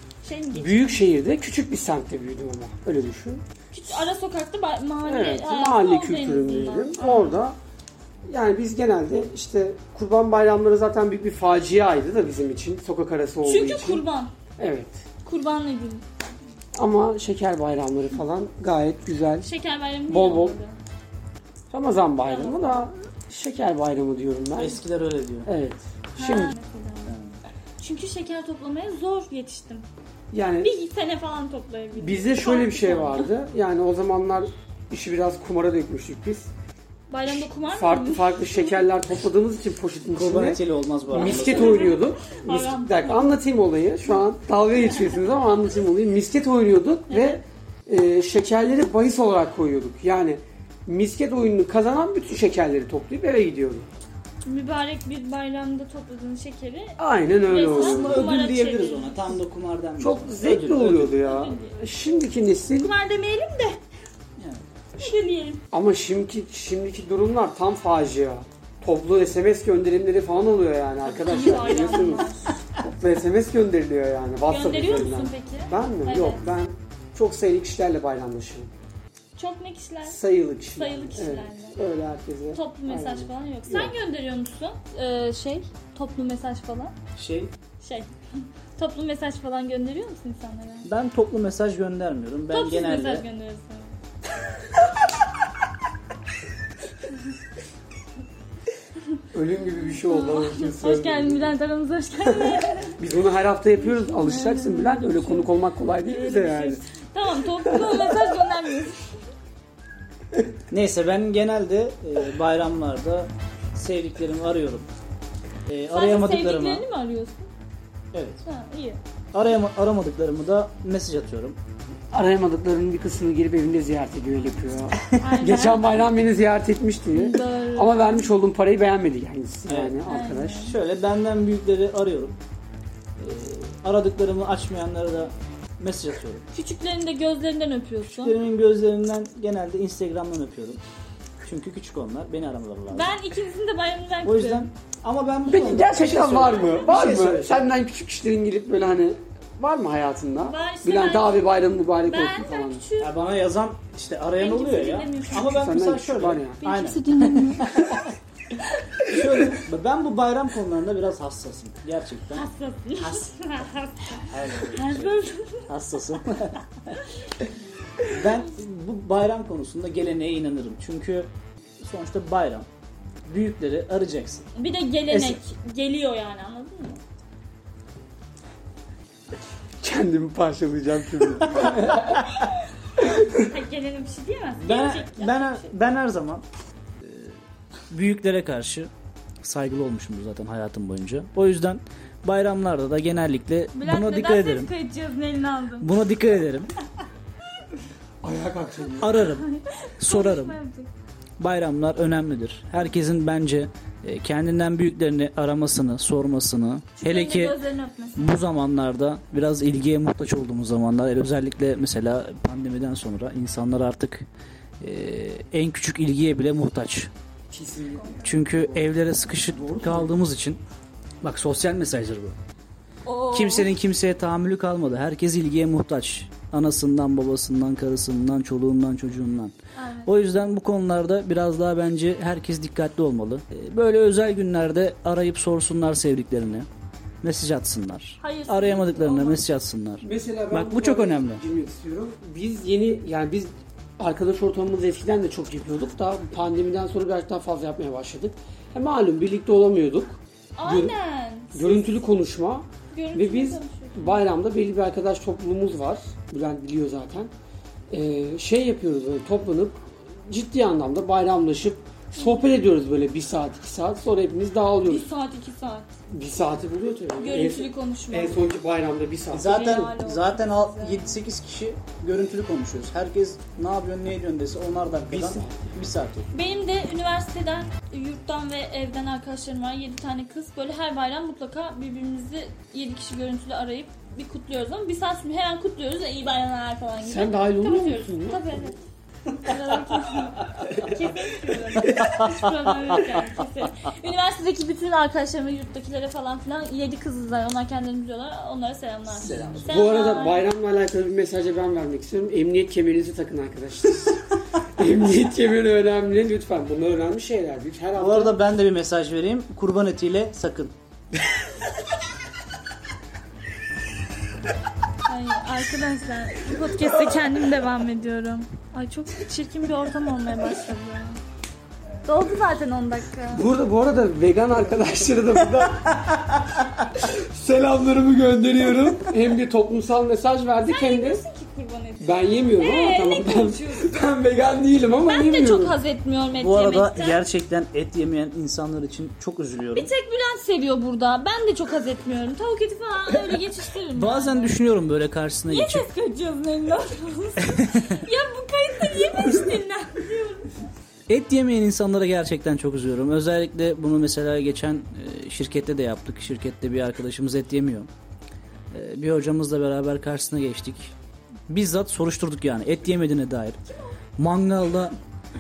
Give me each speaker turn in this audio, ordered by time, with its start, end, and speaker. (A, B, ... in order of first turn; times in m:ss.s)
0:00.2-0:01.0 A
0:00.6-0:03.4 B
0:03.7-0:07.4 A
0:05.1-0:07.6 B
0:08.3-0:14.0 B
0:13.4-0:14.3 A
0:14.6-0:15.0 B
0:15.2-0:16.0 A
0:16.8-0:19.5 B
0:19.4-0:20.8 A
0:20.1-0:20.6 B
0:21.7-0:24.8 B
0:22.2-0:22.9 A
0:24.6-0:25.5 C
0:25.4-0:26.6 B
0:26.2-0:27.1 A
0:27.1-0:27.4 C
0:27.8-0:29.9 A
0:30.3-0:30.7 B
0:30.6-0:33.3 A
0:32.0-0:36.5 B
0:37.1-0:38.8 A
0:37.2-0:40.6 B
0:40.1-0:42.0 C
0:41.1-0:43.2 A
0:41.1-0:53.9 B
0:44.8-0:45.2 A
0:47.1-0:47.4 A
0:54.4-0:59.3 A
0:57.0-0:58.2 B
0:57.5-1:01.2 C
1:00.0-1:02.9 B
1:01.2-1:01.8 A
1:02.8-1:03.8 A
1:05.0-1:05.6 A
1:05.7-1:12.3 B
1:11.1-1:12.6 A
1:11.2-1:11.9 C
1:12.8-1:18.7 B
1:14.5-1:16.5 A
1:19.4-1:20.2 A
1:20.1-1:24.0 B
1:20.8-1:21.8 A
1:22.5-1:27.0 A
1:27.2-1:27.5 C
1:27.8-1:28.1 A
1:28.8-1:30.9 A
1:30.9-1:33.2 C
1:32.5-1:34.0 A
1:39.3-1:41.5 B
1:39.9-1:43.0 A
1:42.2-1:46.8 B
1:43.8-1:49.0 A
1:47.7-1:48.2 B
1:50.7-1:54.9 C
1:55.7-1:56.8 C
1:55.9-1:57.5 A
1:58.1-1:58.4 C
1:58.4-1:59.0 A
1:59.3-2:01.6 C
2:02.1-2:10.7 B
2:05.2-2:05.9 A
2:07.1-2:08.2 A
2:09.7-2:10.0 C
2:10.1-2:10.8 A
2:10.6-2:12.4 C
2:13.2-2:16.4 C
2:16.5-2:18.4 A
2:18.1-2:20.8 C
2:21.4-2:23.2 C
2:22.9-2:24.7 A
2:24.2-2:27.6 C
2:25.5-2:32.8 B
2:30.4-2:31.4 A
2:32.1-2:33.1 A
2:33.0-2:38.2 C
2:34.4-2:35.5 A
2:35.3-2:36.6 B
2:36.6-2:37.7 A
2:39.0-2:42.5 C
2:42.3-2:45.6 A
2:44.3-2:46.6 C
2:48.0-2:51.3 C
2:51.8-2:52.7 C
2:53.3-2:54.5 C
2:54.6-2:57.0 A
2:55.1-2:55.4 C
2:59.8-3:02.4 B
3:01.6-3:02.2 C
3:03.4-3:05.7 A
3:04.6-3:06.4 C
3:07.0-3:07.4 C
3:07.9-3:08.9 C
3:09.4-3:14.7 C
3:13.7-3:15.9 A
3:15.8-3:16.7 C
3:18.2-3:19.2 B
3:19.0-3:19.5 C
3:19.2-3:20.9 A
3:20.0-3:20.6 C
3:21.4-3:27.6 C
3:27.0-3:28.4 A
3:28.2-3:34.3 C
3:34.8-3:37.1 C
3:37.5-3:40.2 B
3:38.2-3:40.6 C
3:41.2-3:42.4 C
3:43.0-3:43.7 A
3:43.3-3:49.5 C
3:49.8-3:50.1 A
3:50.1-3:56.7 C
3:57.2-4:01.4 C
3:58.2-3:59.4 A
4:00.0-4:11.0 B
4:10.6-4:12.0 A
4:11.6-4:17.3 B
4:12.9-4:14.2 A
4:17.9-4:25.1 B
4:24.8-4:25.9 A
4:26.1-4:29.9 B
4:27.2-4:28.4 A
4:29.3-4:36.3 C
4:29.4-4:31.2 A
4:34.9-4:35.8 B
4:36.3-4:48.8 A
4:47.0-4:48.7 B
4:49.4-5:00.5 A
4:51.8-4:53.0 C
4:59.1-4:59.7 C
4:59.2-5:04.2 B
5:04.8-5:08.4 B
5:08.0-5:10.7 C
5:15.1-5:21.2 A
5:22.0-5:23.5 A
5:23.3-5:26.0 B
5:27.0-5:31.2 B
5:30.7-5:33.9 A
5:32.0-5:35.8 B
5:35.0-5:37.2 A
5:36.4-5:39.9 C
5:39.7-5:44.6 A
5:44.0-5:45.9 C
5:45.5-5:50.5 A
5:47.6-5:48.0 C
5:51.1-5:57.9 C
5:58.7-6:00.9 C
6:01.5-6:03.6 C
6:03.7-6:04.0 A
6:04.2-6:05.0 C